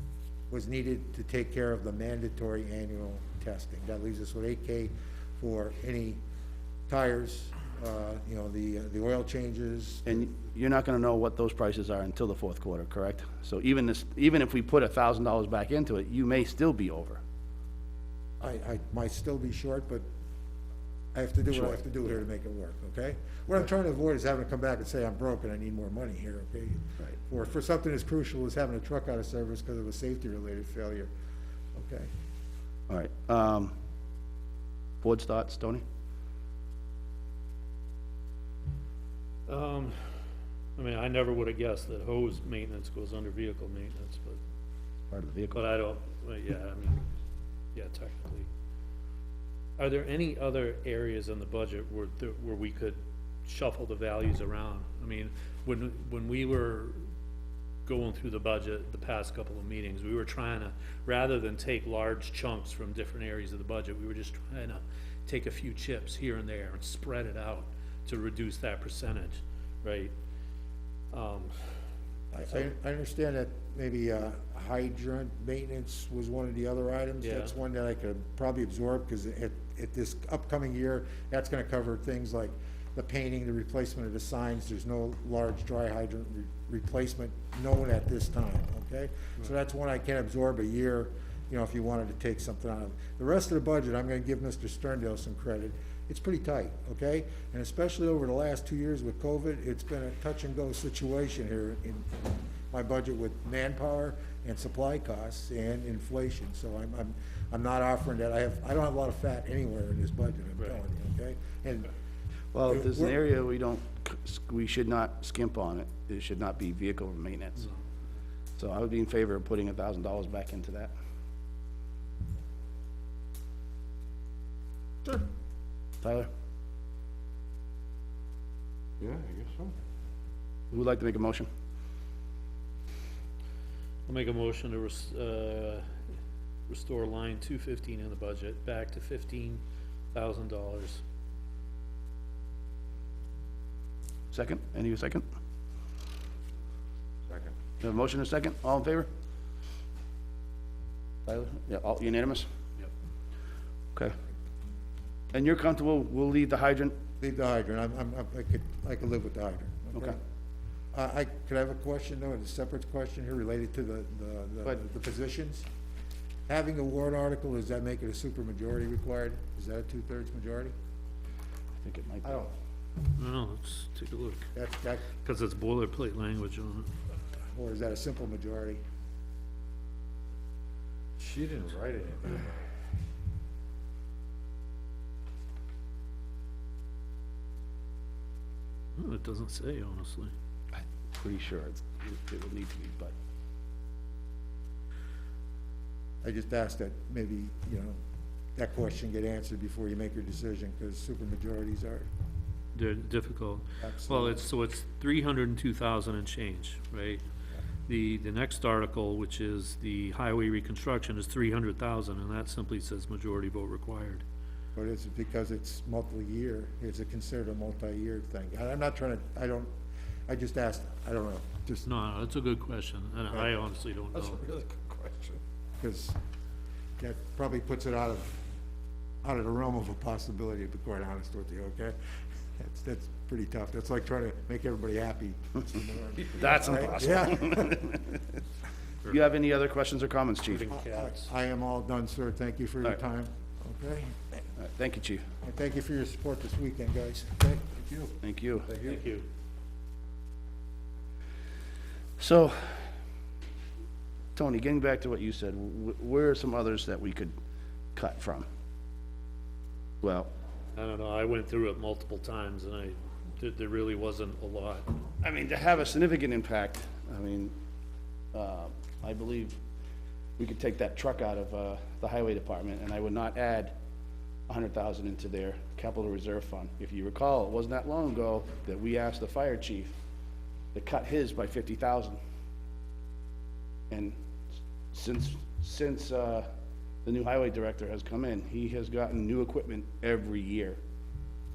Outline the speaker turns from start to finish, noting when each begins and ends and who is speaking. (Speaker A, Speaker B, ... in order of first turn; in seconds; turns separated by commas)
Speaker A: 0.5-6.2, Speaker A: 6.9-10.2, Speaker B: 10.1-17.2, Speaker A: 18.4-20.0, Speaker A: 21.1-31.1, Speaker B: 21.5-21.8, Speaker A: 31.7-32.1, Speaker B: 32.9-33.7, Speaker B: 35.0-35.8, Speaker C: 39.5-40.1, Speaker C: 40.8-44.4, Speaker B: 45.1-45.6, Speaker C: 45.5-47.0, Speaker C: 47.7-48.5, Speaker C: 49.8-57.0, Speaker C: 57.9-70.1, Speaker C: 71.1-71.5, Speaker A: 72.3-111.9, Speaker C: 77.2-77.5, Speaker B: 112.5-117.7, Speaker A: 112.7-113.1, Speaker B: 118.6-120.9, Speaker B: 126.0-126.3, Speaker D: 129.0-129.7, Speaker B: 130.7-131.5, Speaker C: 134.1-135.8, Speaker C: 136.7-139.6, Speaker C: 140.1-141.0, Speaker B: 144.3-145.2, Speaker B: 147.8-149.1, Speaker B: 151.2-152.5, Speaker B: 155.3-157.0, Speaker A: 157.2-160.2, Speaker A: 160.9-165.7, Speaker A: 166.5-170.7, Speaker B: 171.8-172.4, Speaker A: 172.2-172.5, Speaker C: 173.2-174.5, Speaker A: 174.5-175.1, Speaker C: 175.1-176.9, Speaker A: 177.4-178.8, Speaker D: 181.2-182.7, Speaker C: 188.9-190.3, Speaker B: 190.8-193.1, Speaker A: 196.2-198.0, Speaker A: 198.6-202.1, Speaker C: 202.7-207.2, Speaker A: 203.8-204.4, Speaker C: 207.9-214.2, Speaker A: 214.8-219.7, Speaker A: 220.3-221.9, Speaker C: 221.8-224.4, Speaker D: 224.3-225.4, Speaker A: 225.8-226.2, Speaker A: 227.0-228.4, Speaker A: 229.2-231.9, Speaker A: 232.6-237.9, Speaker B: 236.3-238.2, Speaker B: 239.1-240.7, Speaker C: 240.5-241.3, Speaker A: 240.7-244.4, Speaker B: 244.6-245.2, Speaker A: 245.4-247.8, Speaker B: 248.2-248.7, Speaker D: 248.7-249.0, Speaker C: 248.8-249.2, Speaker B: 252.2-252.9, Speaker B: 254.3-257.3, Speaker B: 257.9-258.4, Speaker B: 260.0-260.3, Speaker C: 260.8-264.9, Speaker B: 265.2-267.5, Speaker B: 268.3-269.6, Speaker B: 270.4-273.7, Speaker B: 274.5-279.9, Speaker B: 280.7-282.2, Speaker B: 283.9-284.1, Speaker B: 284.9-286.5, Speaker B: 287.0-290.8